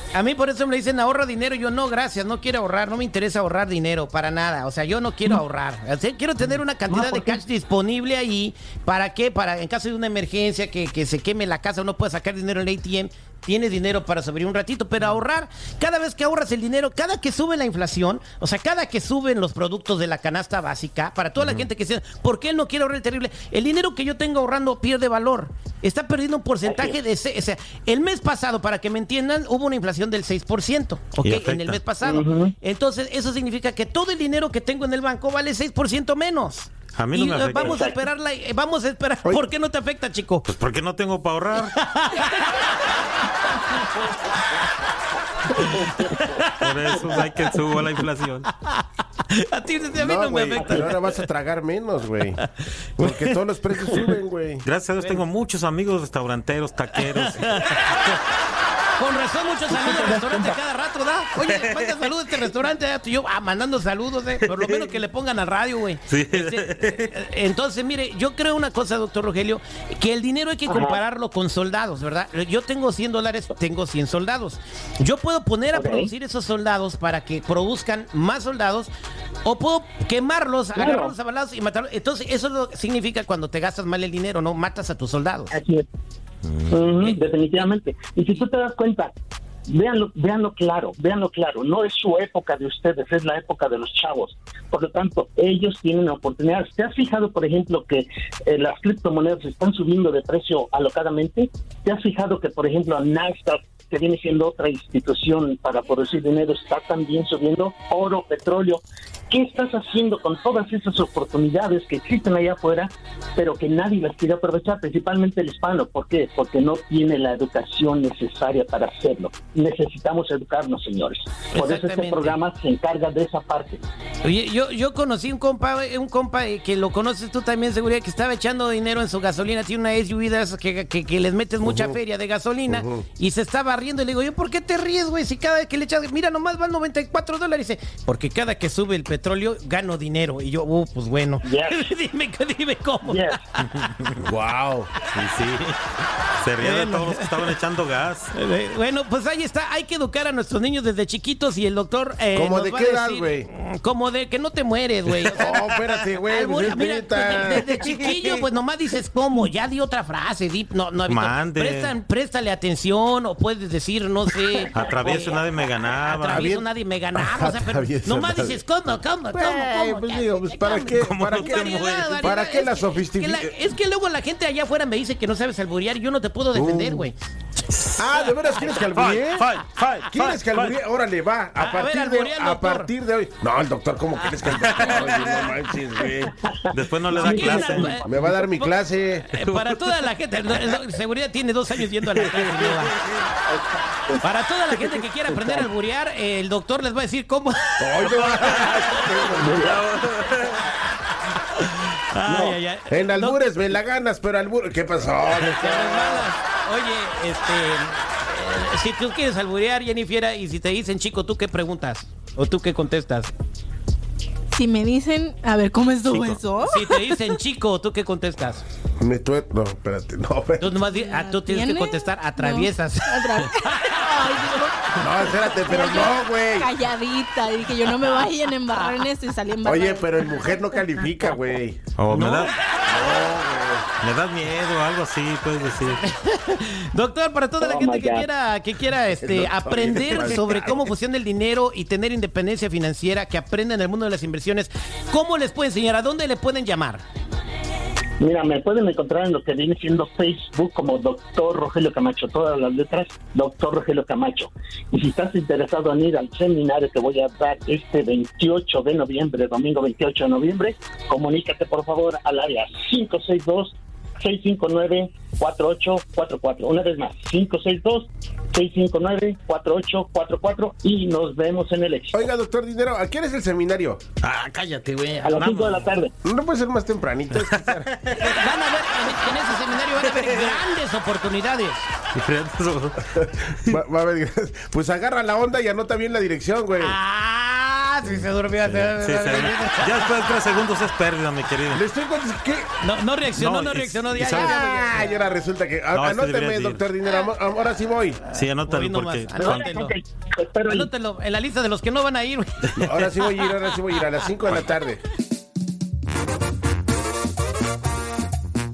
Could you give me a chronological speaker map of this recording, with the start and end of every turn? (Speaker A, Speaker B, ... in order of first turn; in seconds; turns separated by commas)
Speaker A: 0.1-40.5, Speaker B: 6.9-7.3, Speaker C: 21.4-21.6, Speaker B: 26.6-27.0, Speaker C: 31.2-31.8, Speaker B: 32.0-32.5, Speaker C: 37.0-37.8, Speaker B: 37.6-38.0, Speaker C: 40.5-41.8, Speaker A: 41.6-44.6, Speaker A: 45.5-47.6, Speaker B: 45.6-46.2, Speaker C: 46.6-48.5, Speaker A: 48.6-51.1, Speaker D: 50.0-52.4, Speaker B: 50.6-50.9, Speaker D: 53.0-54.6, Speaker A: 53.0-54.2, Speaker C: 54.6-57.7, Speaker A: 57.0-58.2, Speaker A: 59.0-78.9, Speaker B: 59.7-60.5, Speaker C: 66.1-67.1, Speaker B: 70.7-71.0, Speaker B: 75.7-76.1, Speaker A: 79.5-85.6, Speaker B: 80.8-81.2, Speaker B: 85.5-85.9, Speaker B: 86.7-89.1, Speaker B: 89.7-123.8, Speaker A: 121.5-122.4, Speaker A: 124.2-144.2, Speaker D: 131.6-132.0, Speaker D: 132.7-133.1, Speaker B: 141.4-141.9, Speaker B: 143.0-143.4, Speaker D: 144.2-144.9, Speaker C: 145.1-145.8, Speaker C: 146.4-148.3, Speaker A: 146.6-147.3, Speaker A: 148.3-165.4, Speaker D: 152.3-153.5, Speaker D: 155.2-158.4, Speaker C: 161.1-161.9, Speaker C: 164.7-166.6, Speaker A: 166.0-177.1, Speaker D: 166.3-168.6, Speaker D: 169.3-173.5, Speaker C: 170.9-172.3, Speaker D: 176.5-177.1, Speaker D: 178.0-186.4, Speaker C: 178.6-180.8, Speaker A: 181.6-182.9, Speaker C: 184.5-185.5, Speaker A: 184.7-185.4, Speaker B: 186.3-188.4, Speaker C: 186.7-188.0, Speaker A: 187.1-188.7, Speaker D: 188.0-189.3, Speaker A: 189.3-192.9, Speaker C: 189.4-190.0, Speaker C: 192.1-193.2, Speaker B: 193.5-194.2, Speaker A: 194.2-199.4, Speaker B: 195.3-195.7, Speaker D: 197.8-199.7, Speaker B: 199.4-199.8, Speaker C: 199.6-200.7, Speaker A: 201.6-203.4, Speaker B: 202.2-202.6, Speaker D: 202.9-206.3, Speaker A: 205.4-213.3, Speaker E: 214.5-217.4, Speaker C: 216.1-216.4, Speaker A: 216.6-218.6, Speaker D: 219.0-220.7, Speaker A: 220.6-224.7, Speaker E: 220.8-231.0, Speaker D: 225.0-226.7, Speaker A: 228.0-229.0, Speaker D: 229.7-231.8, Speaker C: 232.0-232.5, Speaker A: 232.1-232.6, Speaker D: 232.9-233.9, Speaker C: 234.0-236.0, Speaker A: 236.0-247.0, Speaker B: 237.6-238.3, Speaker D: 239.2-240.9, Speaker B: 248.2-272.2, Speaker D: 272.1-274.0, Speaker C: 274.2-275.9, Speaker B: 275.2-276.1, Speaker D: 276.2-277.9, Speaker C: 277.4-278.4, Speaker A: 278.2-281.9, Speaker C: 280.0-280.6, Speaker C: 282.1-283.8, Speaker D: 283.1-287.0, Speaker A: 286.8-290.4, Speaker C: 288.1-291.8, Speaker D: 291.7-292.7, Speaker A: 292.8-295.1, Speaker C: 293.4-295.0, Speaker D: 294.2-298.2, Speaker C: 295.9-296.8, Speaker A: 298.3-299.9, Speaker C: 298.3-299.7, Speaker B: 299.4-300.9, Speaker A: 300.7-302.7, Speaker D: 302.8-305.0